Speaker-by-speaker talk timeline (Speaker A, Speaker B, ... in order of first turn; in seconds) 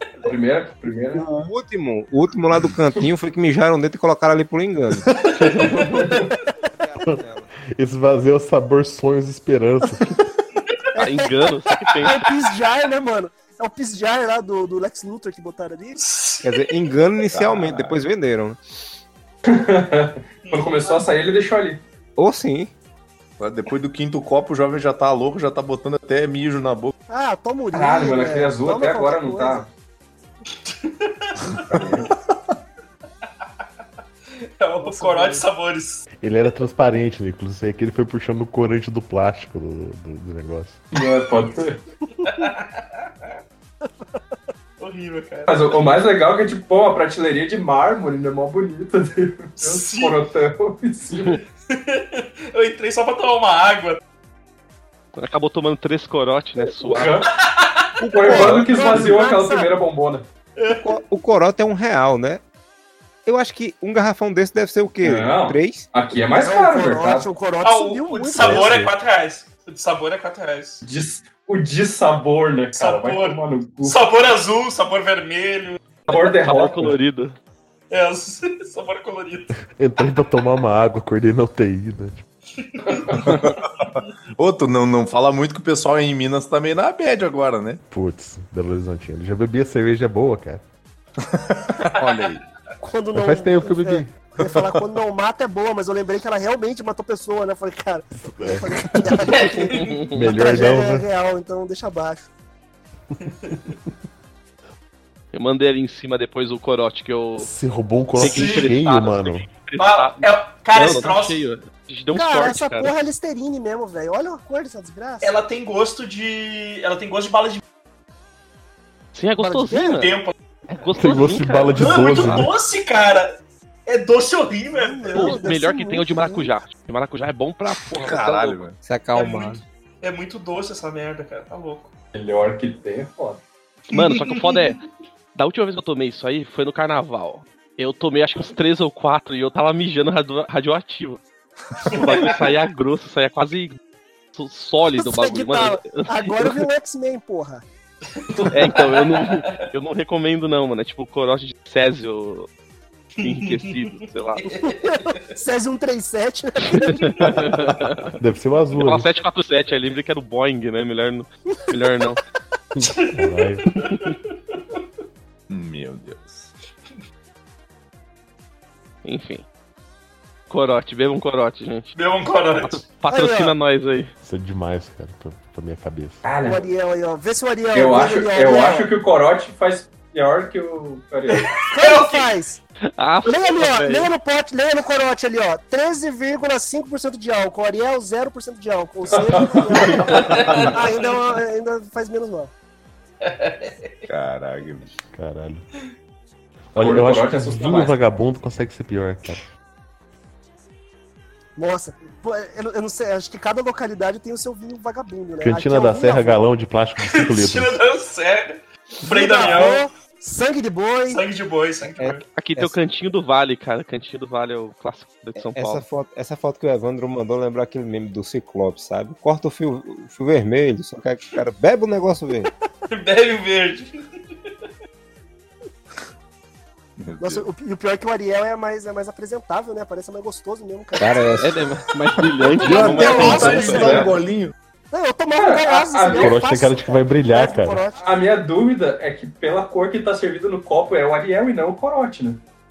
Speaker A: 0.2-1.2, 5.6-6.1, 19.4-21.8, 27.7-29.7, 31.7-32.1, 40.9-41.8, 45.5-51.4, 56.8-57.3, 58.0-60.3, 65.0-67.3, 70.8-74.0, 76.1-77.0, 82.9-83.3, 132.1-133.4, 148.3-148.6, 176.2-176.7, 177.7-181.5, 189.1-190.1, 196.8-198.0, 233.7-234.1, 235.3-236.5, 237.9-242.4
Speaker B: 1.1-5.1, 6.6-7.5, 16.4-18.6, 22.2-22.7, 58.2-59.0, 60.8-62.4, 63.3-65.9, 128.8-129.6, 212.0-212.8, 215.4-222.5, 231.0-231.6
Speaker C: 5.6-6.2, 16.0-16.5, 20.4-21.1, 30.5-31.8, 34.5-36.0, 42.2-43.1, 44.8-45.8, 49.6-50.2, 51.7-54.0, 57.2-57.9, 60.6-60.9, 67.6-70.8, 72.7-76.2, 77.9-79.5, 82.6-83.2, 99.3-100.1, 108.2-108.7, 109.8-111.4, 115.2-117.6, 120.0-120.3, 121.8-123.3, 123.9-125.5, 129.1-131.9, 133.9-134.8, 141.9-142.5, 148.1-149.6, 153.2-155.2, 162.8-164.8, 171.9-172.8, 181.3-182.3, 190.1-191.1, 193.2-193.9, 207.0-209.9, 211.1-212.2, 222.9-223.9
Speaker D: 6.1-6.5, 10.9-11.3, 12.0-16.0, 27.1-29.6, 34.8-35.5, 42.2-42.5, 58.2-59.7, 66.3-68.7, 92.8-102.3, 112.1-115.3, 119.4-120.0, 124.7-126.5, 145.0-147.6, 154.6-157.5, 173.1-173.6, 176.4-178.9, 181.7-182.6, 183.2-192.5, 201.6-206.4, 209.0-211.2, 227.2-231.4, 232.7-234.1, 234.9-238.1
Speaker E: 7.7-10.1, 36.2-40.8, 68.4-68.9, 79.5-82.2, 87.9-90.6, 93.1-94.2, 98.3-99.5, 100.1-101.1, 107.4-109.5, 121.0-122.5, 158.2-159.1, 162.8-163.7, 174.2-176.2, 195.1-195.7, 196.8-199.5, 205.4-207.8, 233.1-233.8, 236.1-237.9
Speaker F: 11.0-12.2, 55.2-57.2, 76.1-77.4, 105.3-107.5, 108.2-113.0, 119.1-120.1, 120.7-122.5, 125.1-128.6, 133.9-134.8, 135.3-141.2, 141.9-143.8, 144.3-146.7, 148.5-152.5, 153.2-154.5, 156.7-158.1, 158.7-162.2, 169.0-169.4, 170.5-171.9, 172.6-174.1, 183.0-184.1, 189.9-190.4, 212.4-215.8, 231.4-234.1
Speaker G: 17.3-17.9, 23.4-26.9, 31.7-32.0, 83.1-87.8, 91.3-92.4, 127.9-128.8, 157.2-157.7, 165.5-166.5, 190.4-190.8, 194.1-194.9, 227.0-227.5, 232.4-234.5